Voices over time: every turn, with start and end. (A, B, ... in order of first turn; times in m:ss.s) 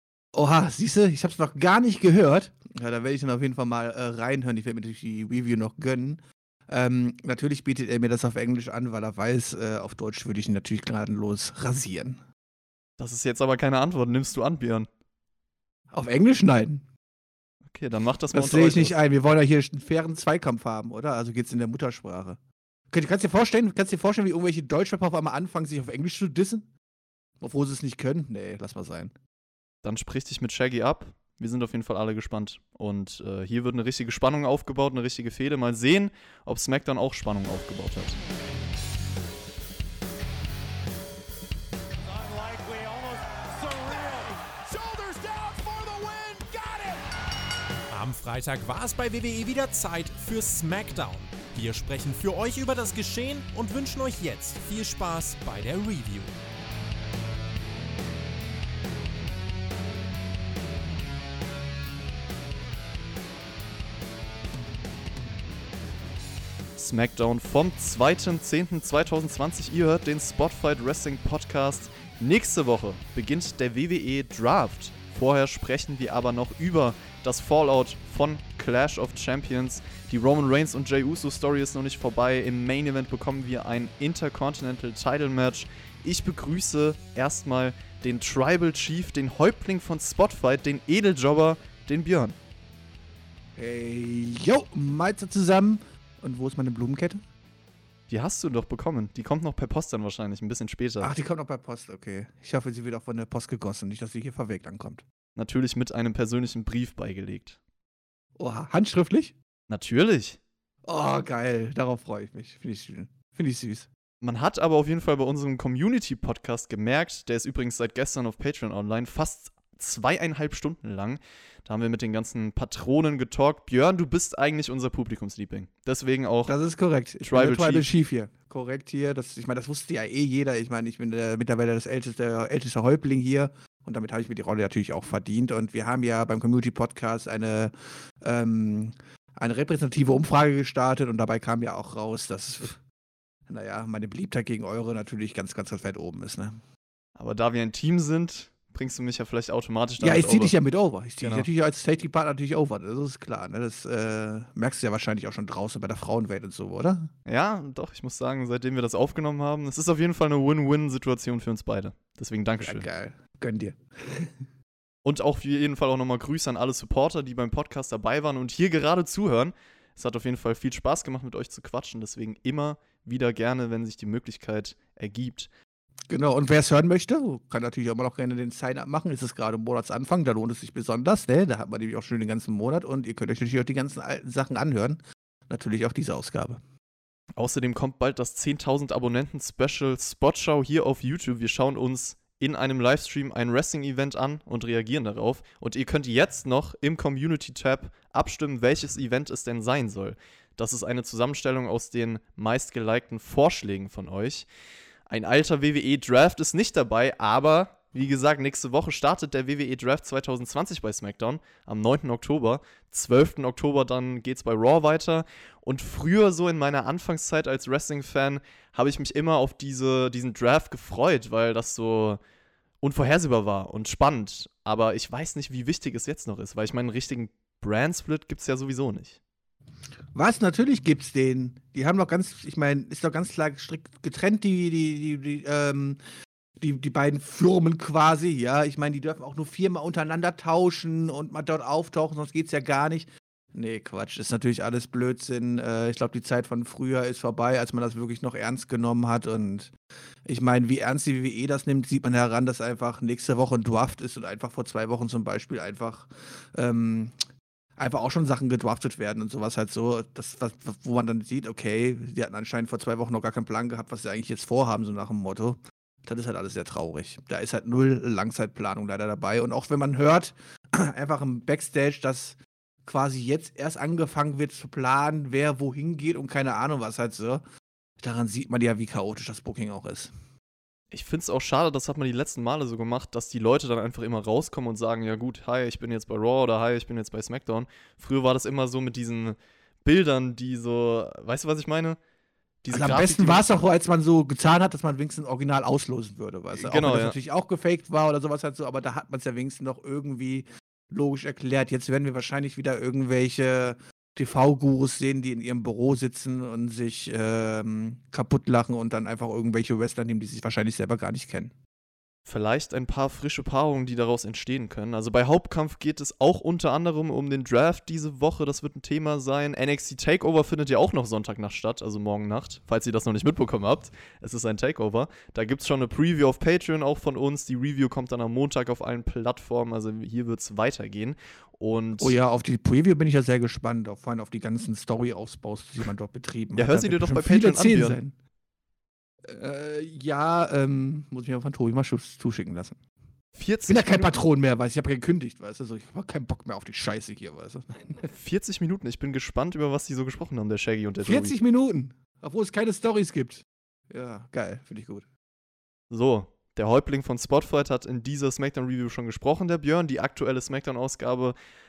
0:00.3-0:12.2 A
0:13.0-0:14.9 B
0:15.9-0:16.9 A
0:17.7-0:19.0 B
0:18.3-0:22.4 A
0:22.9-0:26.7 A
0:27.4-0:29.1 A
0:29.8-0:38.2 B
0:42.0-0:47.0 C
0:47.9-0:56.3 C
1:06.8-1:32.4 B
1:33.6-1:37.2 A
1:38.1-1:41.1 B
1:41.0-1:45.0 A
1:45.4-1:47.6 B
1:48.4-1:49.3 A
1:49.7-1:50.4 B
1:50.8-1:53.9 A
1:54.2-2:06.5 B
2:06.5-2:22.8 A
2:07.2-2:07.9 B
2:23.5-2:26.6 A
2:27.2-2:30.5 B
2:30.0-2:37.1 A
2:31.2-2:31.5 B
2:37.2-2:42.8 B
2:42.6-2:44.3 A
2:45.0-2:55.5 B
2:56.1-3:06.6 A
3:07.4-3:24.5 B
3:25.1-3:42.2 B
3:42.8-3:49.2 B
3:50.1-3:56.0 A
3:56.6-4:09.7 A
4:10.2-4:17.2 A
4:17.8-4:37.4 A
4:38.0-4:40.1 A
4:40.9-4:52.0 B
4:52.6-4:53.4 B
4:52.7-5:11.5 A
4:56.5-4:57.2 B
5:12.2-5:32.2 B
5:32.0-5:38.2 A
5:36.5-5:38.0 B
5:39.2-5:42.8 A
5:43.3-5:44.1 B
5:43.7-5:48.1 A
5:48.1-5:51.3 B
5:51.0-5:55.0 A
5:55.9-6:01.3 B